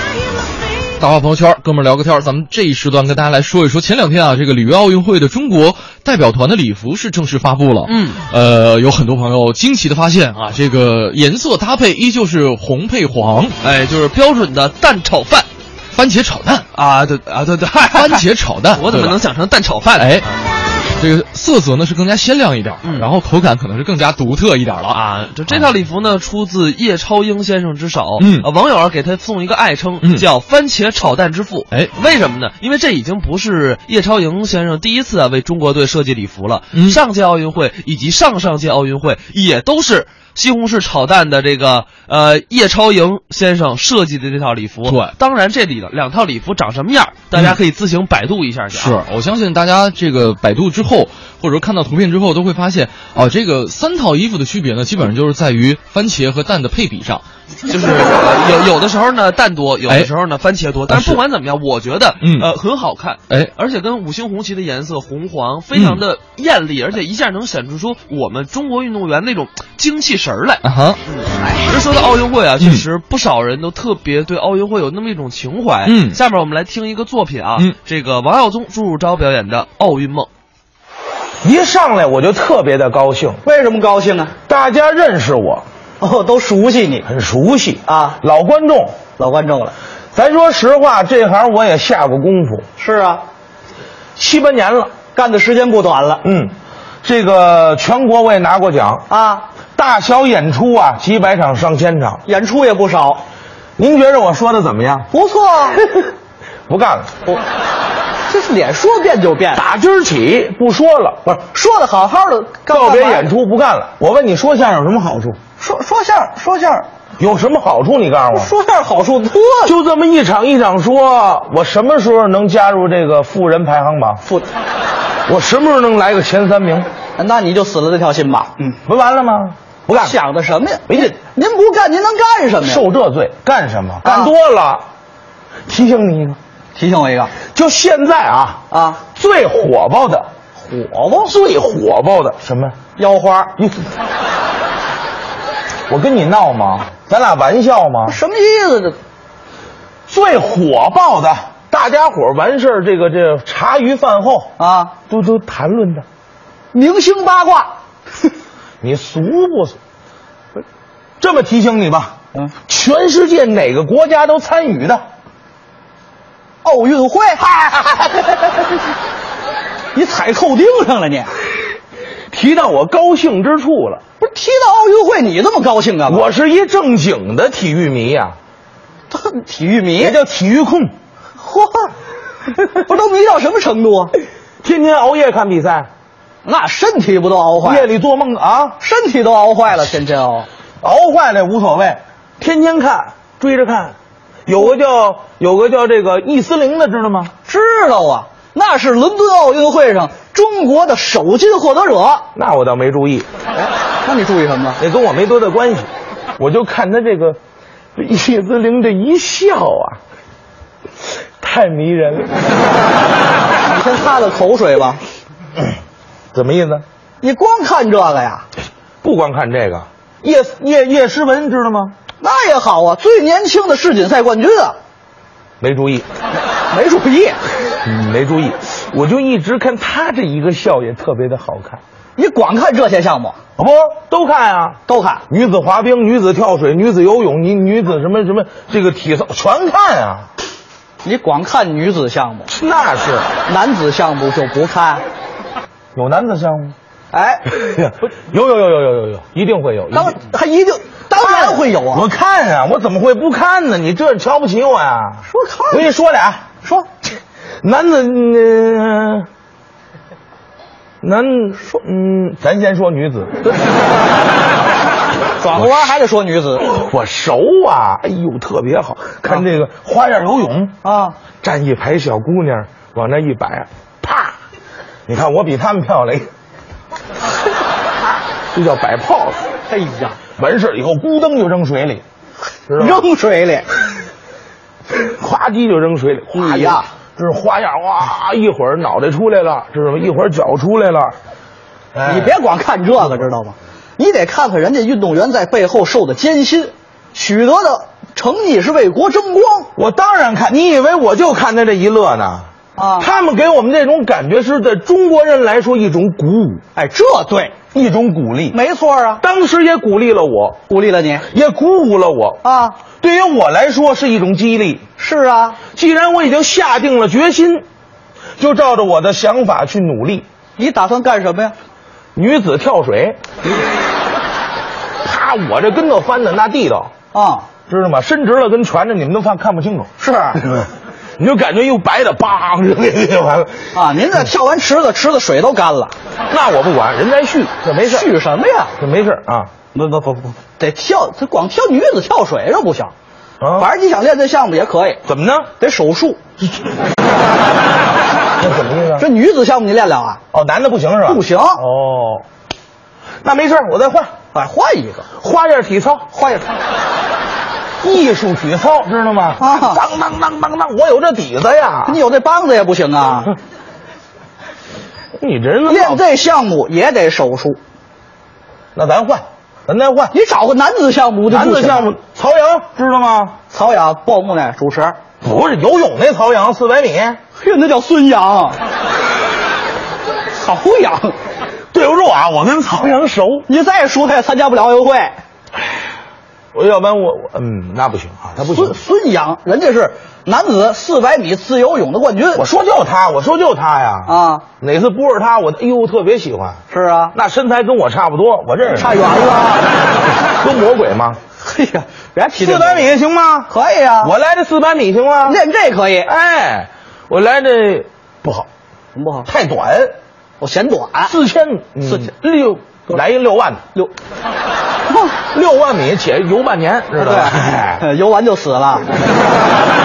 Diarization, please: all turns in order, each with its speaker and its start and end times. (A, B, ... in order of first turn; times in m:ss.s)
0:01.0-0:13.6 A
0:07.8-0:08.2 B
0:13.6-0:15.5 B
0:15.9-0:16.6 A
0:16.7-0:20.2 B
0:17.9-0:19.2 A
0:19.9-0:20.2 A
0:21.0-0:25.7 A
0:22.8-0:23.1 B
0:24.9-0:49.0 B
0:28.2-0:28.5 A
0:36.7-0:37.0 A
0:44.8-0:45.1 A
0:48.7-0:57.2 A
0:57.7-1:20.3 B
0:59.9-1:00.1 A
1:00.9-1:01.2 A
1:02.2-1:02.5 A
1:05.7-1:06.0 A
1:10.6-1:11.0 A
1:12.6-1:12.8 A
1:15.8-1:16.2 A
1:21.4-1:23.4 C
1:23.4-1:24.3 D
1:24.4-1:25.6 C
1:26.0-1:27.0 D
1:27.0-1:29.0 C
1:27.8-1:28.2 D
1:29.2-1:29.7 D
1:30.1-1:32.6 C
1:32.8-1:33.2 D
1:34.2-1:34.9 C
1:35.1-1:36.2 D
1:36.2-1:39.0 C
1:39.1-1:39.4 D
1:39.8-1:42.2 C
1:42.2-1:43.2 D
1:43.8-1:45.1 C
1:45.1-1:45.8 D
1:46.7-1:47.1 C
1:48.3-1:49.6 D
1:49.5-1:51.2 C
1:51.2-1:53.3 D
1:52.7-1:55.4 C
1:55.6-1:56.8 D
1:57.2-1:58.5 C
1:58.3-1:59.7 D
1:59.6-2:04.2 C
2:05.3-2:06.9 C
2:07.2-2:08.8 D
2:08.8-2:10.2 C
2:10.0-2:12.8 D
2:10.9-2:11.2 C
2:12.6-2:14.8 C
2:14.0-2:14.3 D
2:15.7-2:16.4 C
2:16.8-2:17.3 D
2:17.5-2:18.6 C
2:18.7-2:19.0 D
2:19.1-2:20.3 C
2:20.6-2:21.3 D
2:21.2-2:22.8 C
2:23.0-2:23.5 D
2:23.6-2:23.9 C
2:25.9-2:28.2 C
2:28.0-2:29.0 D
2:30.1-2:34.5 C
2:34.6-2:34.9 D
2:35.1-2:36.0 C
2:36.7-2:37.7 D
2:38.8-2:39.8 C
2:41.2-2:42.1 C
2:42.6-2:45.0 C
2:46.6-2:47.5 D
2:49.9-2:51.3 D
2:52.3-2:54.0 C
2:54.2-2:56.3 D
2:56.1-2:58.4 C
2:59.1-3:00.1 D
3:00.0-3:00.9 C
3:01.4-3:01.9 D
3:02.5-3:04.1 D
3:04.6-3:05.9 C
3:06.4-3:07.8 D
3:07.6-3:08.8 C
3:08.8-3:10.5 D
3:10.8-3:13.9 C
3:14.4-3:17.3 C
3:17.4-3:22.2 D
3:22.3-3:23.3 C
3:24.0-3:24.8 D
3:24.8-3:27.4 C
3:28.0-3:30.0 C
3:31.4-3:32.4 C
3:33.7-3:35.0 D
3:36.3-3:36.8 C
3:37.2-3:38.5 D
3:39.0-3:41.9 C
3:42.2-3:44.8 D
3:45.6-3:46.0 C
3:46.7-3:47.4 D
3:47.8-3:51.8 C
3:52.2-3:53.4 D
3:53.6-4:00.3 C
3:54.9-3:55.2 D
4:01.0-4:02.5 D
4:02.5-4:03.3 C
4:03.4-4:05.0 D
4:05.9-4:06.7 C
4:07.1-4:07.4 D
4:07.5-4:10.2 C
4:09.9-4:12.0 D
4:11.2-4:16.4 C
4:15.3-4:15.9 D
4:17.6-4:19.3 C
4:21.0-4:23.3 C
4:25.4-4:26.7 D
4:25.6-4:25.9 C
4:26.6-4:30.7 C
4:30.8-4:31.2 D
4:31.4-4:34.3 C
4:35.1-4:36.3 C
4:38.5-4:39.4 C
4:39.7-4:40.2 D
4:40.4-4:42.0 C
4:42.7-4:43.0 C
4:42.8-4:43.8 D
4:45.0-4:51.1 C
4:46.3-4:46.9 D
4:51.9-4:52.4 C
4:52.0-4:59.7 D
4:59.8-5:02.5 C
5:02.8-5:03.1 D
5:03.0-5:06.6 C
5:06.8-5:07.6 D
5:07.7-5:08.6 C
5:08.5-5:09.2 D
5:09.2-5:10.6 C
5:10.7-5:11.2 D
5:11.3-5:12.4 C
5:12.4-5:12.8 D
5:13.0-5:14.8 C
5:15.0-5:15.6 D
5:15.7-5:17.6 C
5:18.4-5:20.2 C
5:20.6-5:21.5 D
5:22.1-5:23.2 C
5:25.0-5:26.9 C
5:27.1-5:27.5 D
5:27.7-5:29.9 C
5:30.0-5:30.4 D
5:30.4-5:30.6 C
5:31.2-5:33.8 C
5:33.7-5:35.9 D
5:36.3-5:38.1 C
5:37.9-5:38.7 D
5:38.8-5:39.5 C
5:39.7-5:42.9 D
5:43.4-5:43.7 C
5:43.6-5:45.0 D
5:45.0-5:45.5 C
5:45.6-5:46.2 D
5:48.4-5:49.0 C
5:49.0-5:50.2 D
5:50.3-5:52.2 C
5:51.0-5:51.6 D
5:53.2-5:54.1 C
5:54.3-5:55.0 D
5:55.2-5:56.1 C
5:56.1-5:56.5 D
5:57.8-6:02.0 C
5:59.4-5:59.8 D
6:01.8-6:03.3 D
6:05.2-6:06.0 C
6:05.6-6:07.6 D
6:08.7-6:10.1 C
6:10.1-6:11.9 D
6:11.3-6:13.4 C
6:13.5-6:15.0 D
6:15.2-6:17.2 C
6:17.4-6:18.6 D
6:20.4-6:21.2 D
6:21.7-6:23.4 C
6:23.5-6:25.2 D
6:26.5-6:28.8 C
6:28.5-6:32.4 D
6:32.3-6:36.6 C
6:34.0-6:34.4 D
6:36.7-6:37.1 D
6:37.1-6:38.9 C
6:38.7-6:39.6 D
6:40.4-6:41.2 C
6:41.4-6:42.9 D
6:42.3-6:45.4 C
6:43.5-6:44.1 D
6:45.2-6:46.1 D
6:46.0-6:48.5 C
6:48.9-6:49.3 D
6:49.2-6:49.9 C
6:50.4-6:51.1 D
6:51.0-6:53.6 C
6:51.8-6:52.1 D
6:54.9-6:55.1 D
6:55.3-6:57.8 C
6:57.0-6:58.9 D